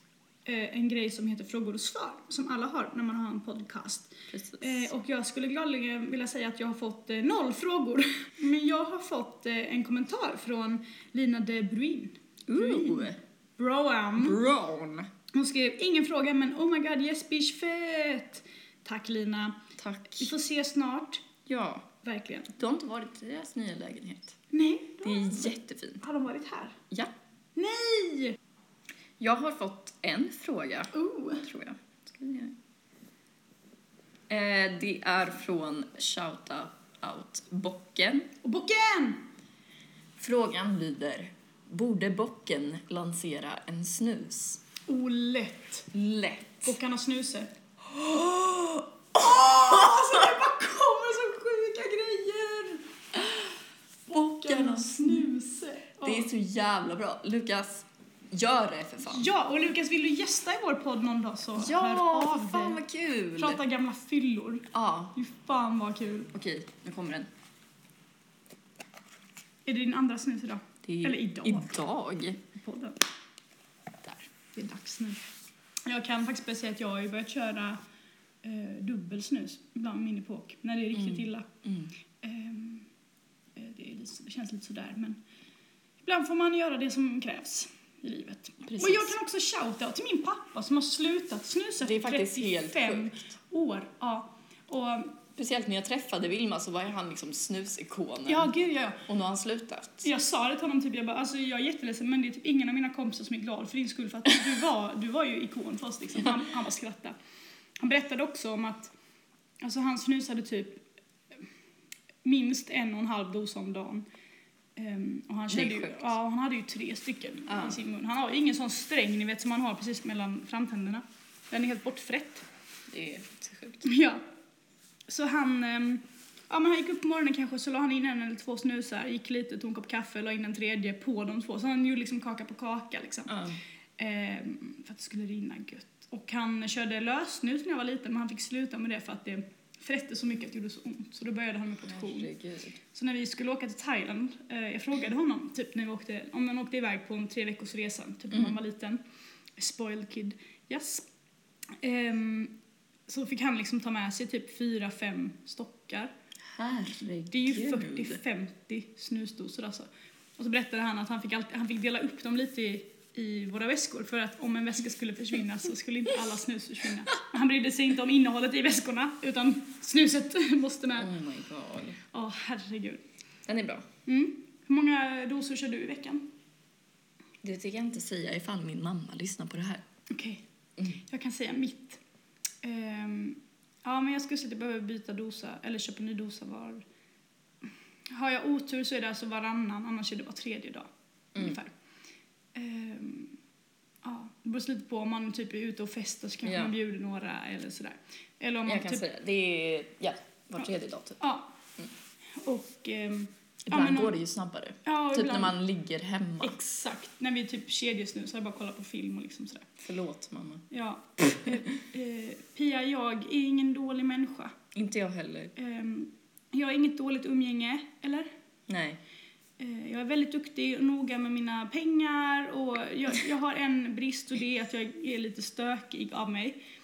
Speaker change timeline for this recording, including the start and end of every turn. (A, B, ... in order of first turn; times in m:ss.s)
0:00.5-0:14.4 A
0:04.3-0:04.9 B
0:12.5-0:13.2 B
0:14.2-0:15.1 B
0:15.3-0:19.6 A
0:19.8-0:20.3 B
0:20.2-0:21.2 A
0:21.5-0:21.9 B
0:22.0-0:22.5 A
0:22.6-0:24.4 B
0:24.5-0:26.8 A
0:25.0-0:26.0 B
0:27.6-0:28.4 A
0:29.2-0:32.6 B
0:30.9-0:31.4 A
0:34.3-0:38.3 B
0:38.4-0:39.2 A
0:40.2-0:44.6 B
0:44.9-0:45.9 A
0:45.9-0:46.7 B
0:46.6-0:47.5 A
0:47.9-0:50.3 B
0:49.2-0:52.9 A
0:54.1-0:56.3 A
0:54.1-0:55.3 B
0:56.0-0:59.3 B
0:59.0-1:02.8 A
1:01.6-1:03.6 B
1:03.4-1:06.3 A
1:04.7-1:05.1 B
1:06.3-1:07.3 B
1:09.7-1:11.8 A
1:10.9-1:12.4 B
1:12.5-1:13.0 A
1:14.6-1:15.3 A
1:15.9-1:17.8 A
1:18.4-1:21.5 A
1:20.9-1:21.9 B
1:22.2-1:22.9 A
1:23.6-1:25.2 A
1:26.0-1:35.2 A
1:28.6-1:29.1 B
1:31.8-1:33.2 B
1:35.4-1:38.5 B
1:38.3-1:39.0 A
1:39.1-1:40.1 B
1:40.0-1:47.2 A
1:47.8-1:48.9 A
1:49.6-1:50.8 A
1:52.2-1:54.0 A
1:54.8-2:02.4 A
1:55.5-1:56.1 B
1:57.5-1:57.8 B
2:02.9-2:03.9 B
2:03.8-2:04.3 A
2:05.1-2:13.4 A
2:13.3-2:13.6 B
2:14.0-2:22.3 A
2:21.9-2:22.8 B
2:22.9-2:29.0 A
2:29.6-2:31.1 A
2:31.8-2:32.5 A
2:33.1-2:36.1 A
2:36.5-2:38.2 B
2:37.3-2:51.1 A
2:51.0-2:52.0 B
2:52.1-2:53.0 A
2:53.5-2:53.8 B
2:54.1-2:56.3 A
2:57.4-2:59.8 B
3:00.1-3:02.0 A
3:02.6-3:06.8 A
3:08.1-3:11.7 A
3:12.6-3:13.4 A
3:14.0-3:19.0 A
3:16.4-3:16.7 B
3:18.7-3:21.2 B
3:21.2-3:21.5 A
3:22.3-3:24.2 A
3:23.7-3:26.6 B
3:24.8-3:25.6 A
3:26.4-3:29.7 A
3:29.8-3:30.7 B
3:30.7-3:34.6 A
3:31.2-3:31.6 B
3:34.7-3:35.5 B
3:35.6-3:38.3 A
3:38.7-3:39.0 B
3:39.6-3:46.6 A